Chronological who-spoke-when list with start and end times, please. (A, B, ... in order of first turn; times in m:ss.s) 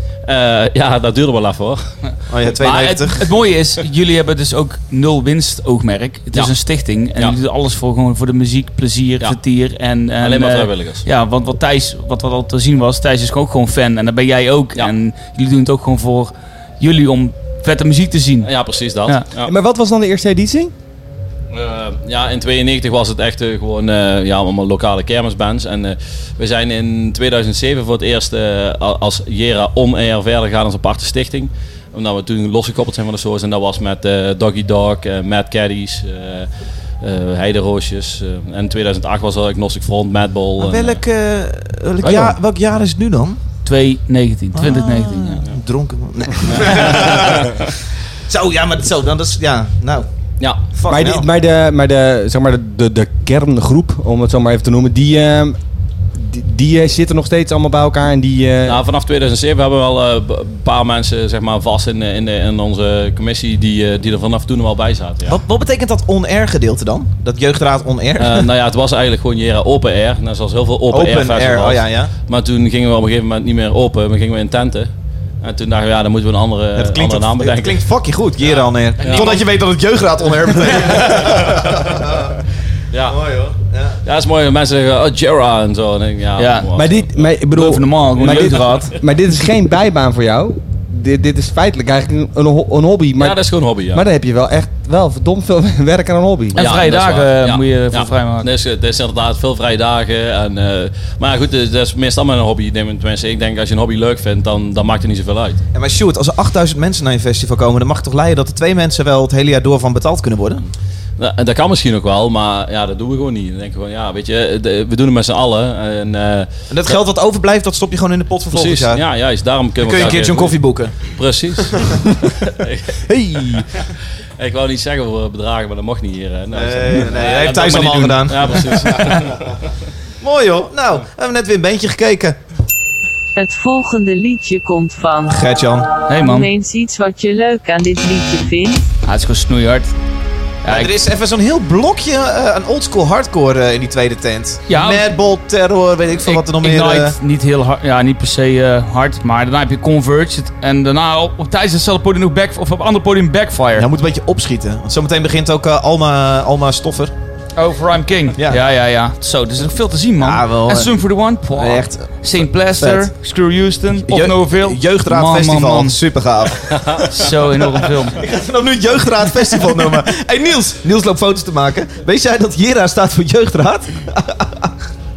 0:00.3-0:01.8 A
0:02.3-0:03.3 B
0:02.6-0:18.5 C
0:10.2-0:11.0 A
0:18.4-0:19.5 A
0:19.4-0:20.7 D
0:21.5-0:36.5 A
0:37.0-0:41.0 A
0:40.6-0:43.4 B
0:43.6-0:45.4 C
0:44.5-0:47.5 B
0:46.5-0:47.5 A
0:48.3-0:50.1 B
0:50.7-0:51.3 B
0:50.9-0:55.6 D
0:56.2-0:58.8 D
0:58.6-1:05.4 A
1:05.3-1:08.5 B
1:08.2-1:17.8 A
1:10.9-1:12.1 B
1:16.8-1:22.3 B
1:19.0-1:19.4 C
1:19.0-1:19.4 A
1:22.9-1:23.2 A
1:23.1-1:24.0 B
1:24.0-1:27.2 A
1:26.4-1:26.7 C
1:26.8-1:36.6 D
1:27.5-1:28.9 C
1:28.2-1:28.9 A
1:33.2-1:34.0 A
1:36.6-1:38.5 C
1:36.6-1:45.6 A
1:45.7-1:50.6 B
1:51.2-1:57.0 A
1:56.7-1:59.0 B
1:58.5-2:03.6 A
1:59.8-2:01.0 B
2:01.6-2:02.0 B
2:03.1-2:03.6 D
2:04.4-2:09.5 A
2:06.5-2:09.2 B
2:10.2-2:12.4 B
2:13.4-2:15.4 E
2:15.3-2:15.9 B
2:16.1-2:16.5 C
2:16.2-2:18.9 E
2:19.0-2:19.9 C
2:20.6-2:20.9 C
2:20.7-2:27.2 B
2:24.7-2:25.0 C
2:26.2-2:33.9 C
2:33.8-2:37.1 B
2:37.6-2:46.0 C
2:40.2-2:41.0 B
2:41.5-2:42.1 B
2:42.8-2:43.1 B
2:44.1-2:47.0 B
2:47.1-2:48.2 C
2:48.1-2:54.7 B